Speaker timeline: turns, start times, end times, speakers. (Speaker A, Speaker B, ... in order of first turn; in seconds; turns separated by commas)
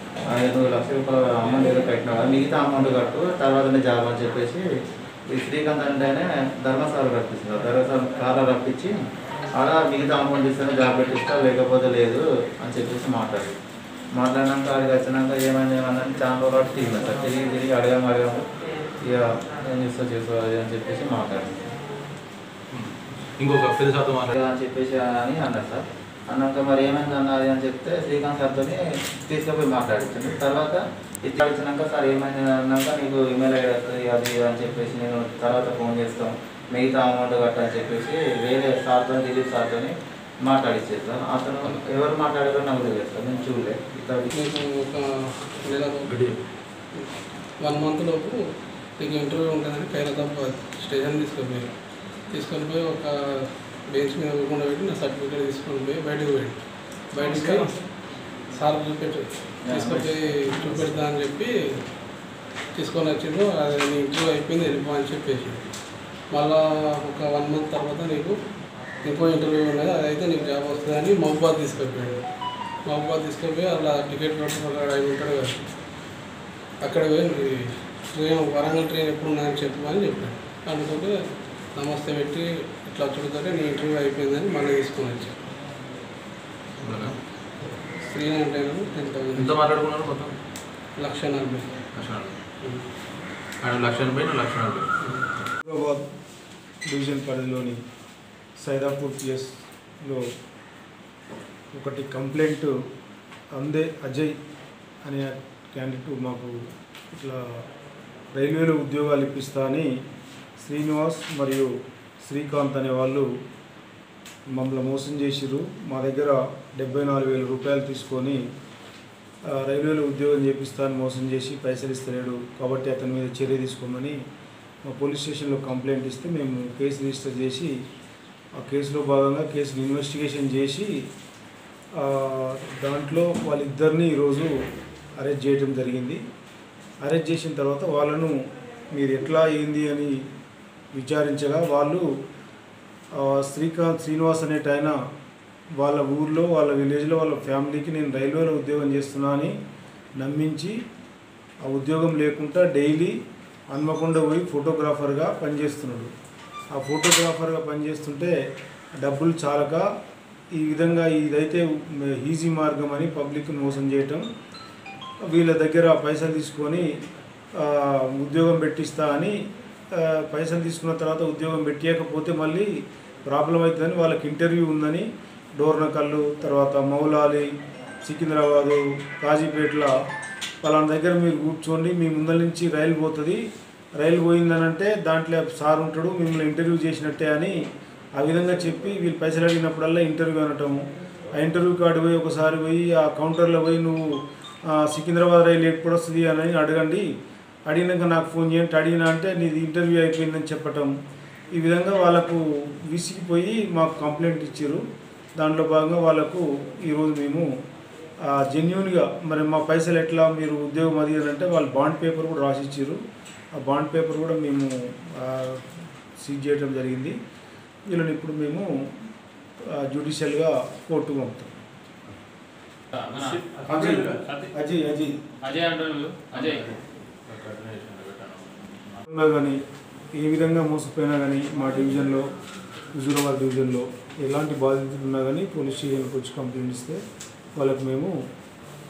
Speaker A: 0.3-4.6, Speaker A: 5.3-8.9, Speaker A: 9.5-13.5, Speaker A: 14.2-21.6, Speaker B: 22.7-24.3, Speaker A: 24.3-44.3, Speaker C: 44.4-46.2, Speaker B: 46.1-46.4, Speaker C: 47.6-48.4, Speaker C: 49.0-51.7, Speaker C: 52.3-56.6, Speaker C: 57.1-57.7, Speaker C: 58.5-61.5, Speaker A: 59.6-60.8, Speaker C: 62.8-65.6, Speaker C: 66.3-68.4, Speaker C: 69.0-72.2, Speaker C: 72.9-75.6, Speaker C: 76.8-81.2, Speaker C: 81.8-85.4, Speaker B: 86.8-87.2, Speaker C: 88.0-89.6, Speaker B: 89.3-90.4, Speaker C: 91.0-91.8, Speaker B: 91.9-92.4, Speaker B: 93.6-94.9, Speaker D: 95.7-96.0, Speaker D: 96.9-97.8, Speaker D: 98.6-99.5, Speaker D: 101.8-102.7, Speaker D: 103.6-104.3, Speaker D: 105.0-106.6, Speaker D: 107.1-107.6, Speaker D: 108.3-109.9, Speaker D: 110.6-111.7, Speaker D: 112.2-113.3, Speaker D: 114.6-118.4, Speaker D: 119.5-124.2, Speaker D: 124.9-127.8, Speaker D: 128.6-130.9, Speaker D: 132.0-134.5, Speaker D: 135.2-136.2, Speaker D: 137.0-138.3, Speaker D: 138.9-140.2, Speaker D: 140.9-142.0, Speaker D: 143.2-144.9, Speaker D: 145.8-149.5, Speaker D: 150.2-150.8, Speaker D: 151.6-153.2, Speaker D: 153.7-156.1, Speaker D: 156.8-158.3, Speaker D: 159.0-159.8, Speaker D: 160.5-164.2, Speaker D: 165.3-166.9, Speaker D: 167.6-169.3, Speaker D: 169.9-172.7, Speaker D: 173.3-177.5, Speaker D: 178.1-179.9, Speaker D: 180.6-183.4, Speaker D: 184.0-187.6, Speaker D: 188.2-194.0, Speaker D: 194.7-197.1, Speaker D: 197.7-200.9, Speaker D: 201.5-204.8, Speaker D: 205.4-207.5, Speaker D: 208.3-213.0, Speaker D: 213.6-217.2, Speaker D: 217.9-218.7, Speaker D: 219.7-221.5, Speaker B: 223.0-224.5, Speaker D: 223.7-225.1, Speaker A: 225.5-226.4, Speaker B: 226.3-228.5, Speaker D: 229.1-229.6, Speaker D: 230.1-232.2, Speaker D: 233.0-237.0, Speaker D: 237.6-238.1